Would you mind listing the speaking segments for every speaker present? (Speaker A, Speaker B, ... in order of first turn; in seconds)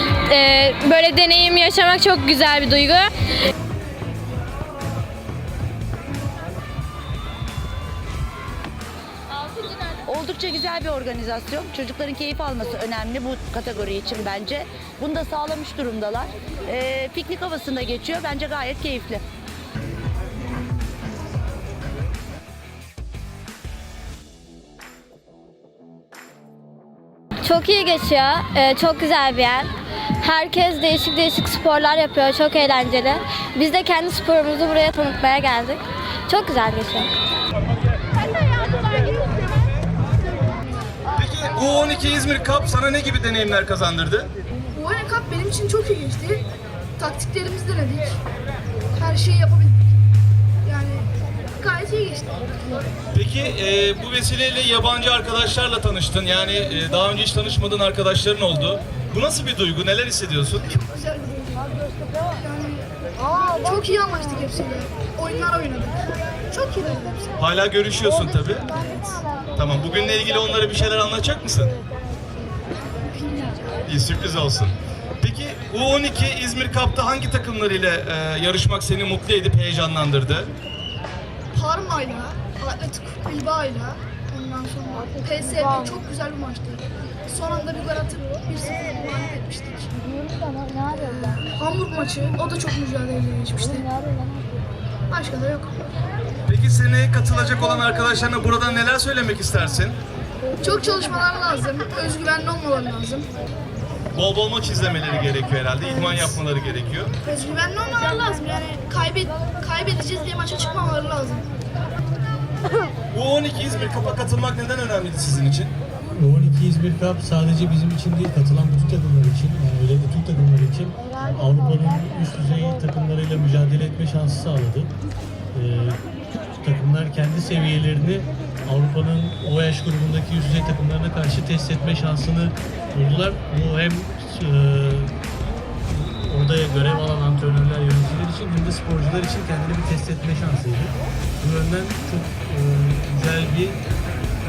Speaker A: 0.3-3.1
Speaker B: 10.1-19.2
Speaker C: 27.4-37.1
Speaker D: 41.2-44.3, 53.1-60.6, 67.4-68.7, 69.5-71.7, 73.8-80.5, 96.5-100.0, 104.2-107.1, 113.1-115.7
Speaker E: 44.7-46.4, 47.0-48.2, 49.0-49.9, 50.6-51.1, 51.6-52.4, 60.6-61.7, 62.3-67.4, 68.7-69.2, 73.0-73.8, 81.5-90.0, 91.0-93.9, 95.1-95.8, 100.6-103.3, 105.8-106.4, 107.2-111.5
Speaker F: 116.2-124.9, 125.5-135.2, 135.8-143.8